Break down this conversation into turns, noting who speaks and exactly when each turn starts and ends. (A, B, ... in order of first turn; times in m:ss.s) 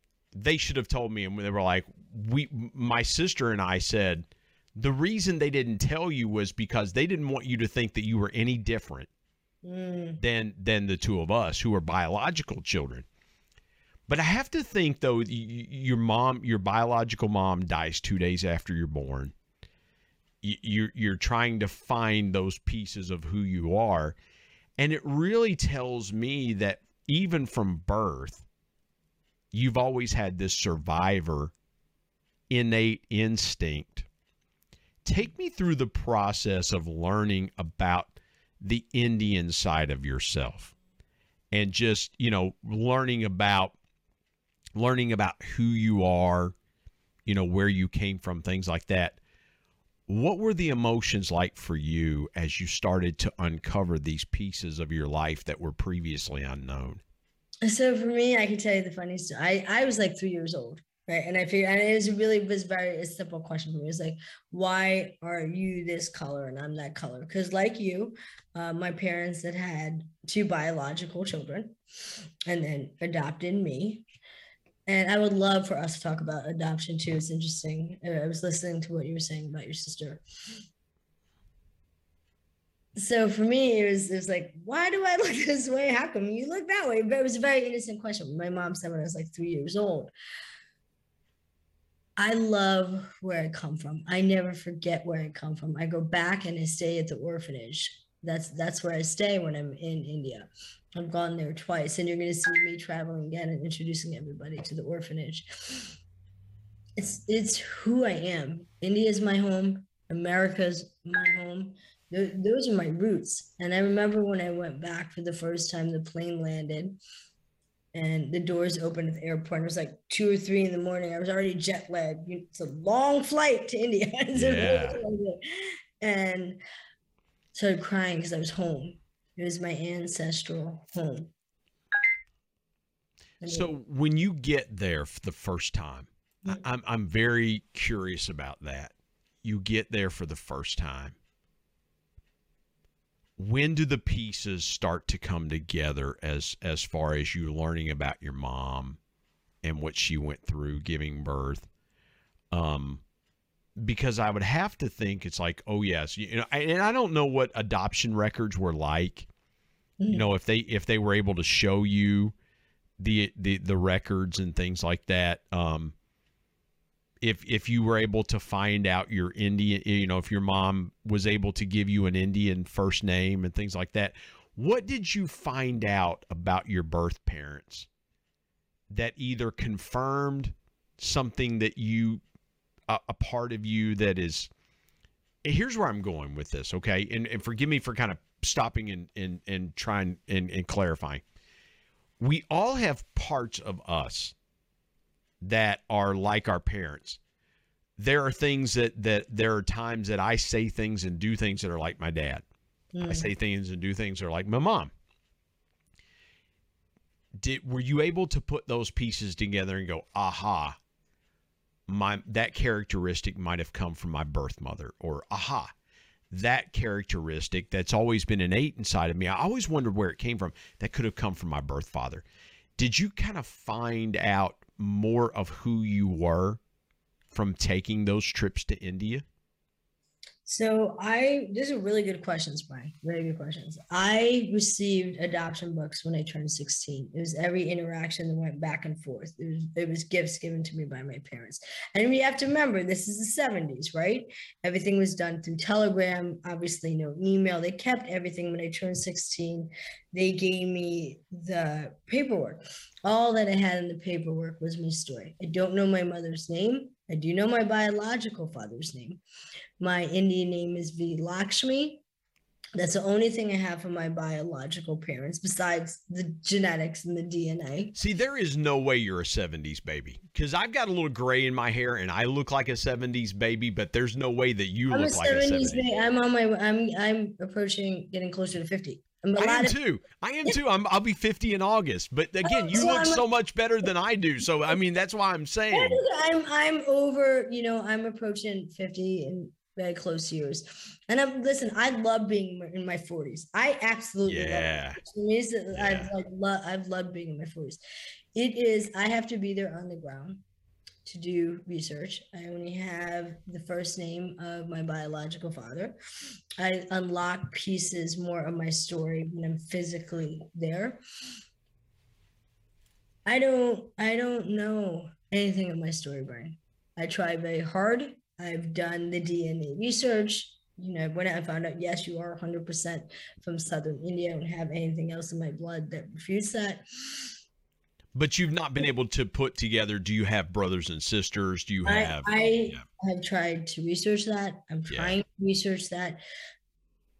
0:00.3-0:09.1 A
0:09.6-0:10.2 B
0:10.2-0:13.1 A
0:14.1-0:19.3 A
0:20.4-0:24.2 A
0:24.8-0:28.5 A
0:29.5-0:31.5 A
0:32.5-0:34.1 A
0:35.0-0:40.8 A
0:41.5-0:43.8 A
0:44.7-0:46.6 A
0:47.2-0:49.2 A
0:50.1-0:57.0 A
0:57.6-1:11.8 B
1:12.5-1:14.1 B
1:14.9-1:20.2 B
1:23.0-1:30.1 B
1:32.2-1:46.0 B
1:47.0-1:57.0 B
1:57.9-2:06.6 B
2:04.3-2:05.0 A
2:07.5-2:11.3 B
2:13.4-2:13.7 B
2:13.4-2:21.2 A
2:23.4-2:29.0 A
2:29.6-2:31.7 A
2:32.5-2:33.0 A
2:33.8-2:39.3 A
2:40.0-2:40.2 B
2:40.1-2:42.4 A
2:43.0-2:46.0 A
2:47.2-2:57.9 A
2:58.9-3:02.2 A
3:02.9-3:04.5 A
3:05.4-3:11.2 A
3:12.2-3:14.4 A
3:15.4-3:17.2 A
3:18.0-3:22.4 A
3:22.9-3:23.3 B
3:23.0-3:24.9 A
3:27.4-3:30.8 A
3:31.9-3:35.7 A
3:36.3-3:42.2 A
3:42.8-3:46.6 A
3:47.3-3:49.2 A
3:50.4-4:19.2 B
4:19.8-4:22.0 B
4:22.8-4:28.0 B
4:28.0-4:35.9 A
4:34.9-4:39.8 B
4:39.4-4:46.0 A
4:42.4-4:43.2 B
4:45.7-4:57.8 B
4:54.2-4:55.0 A
4:55.7-4:56.1 A
4:58.4-5:00.4 B
5:01.0-5:06.0 B
5:06.6-5:11.0 B
5:13.2-5:27.3 B
5:28.1-5:32.8 A
5:31.8-5:36.2 B
5:34.9-5:35.2 A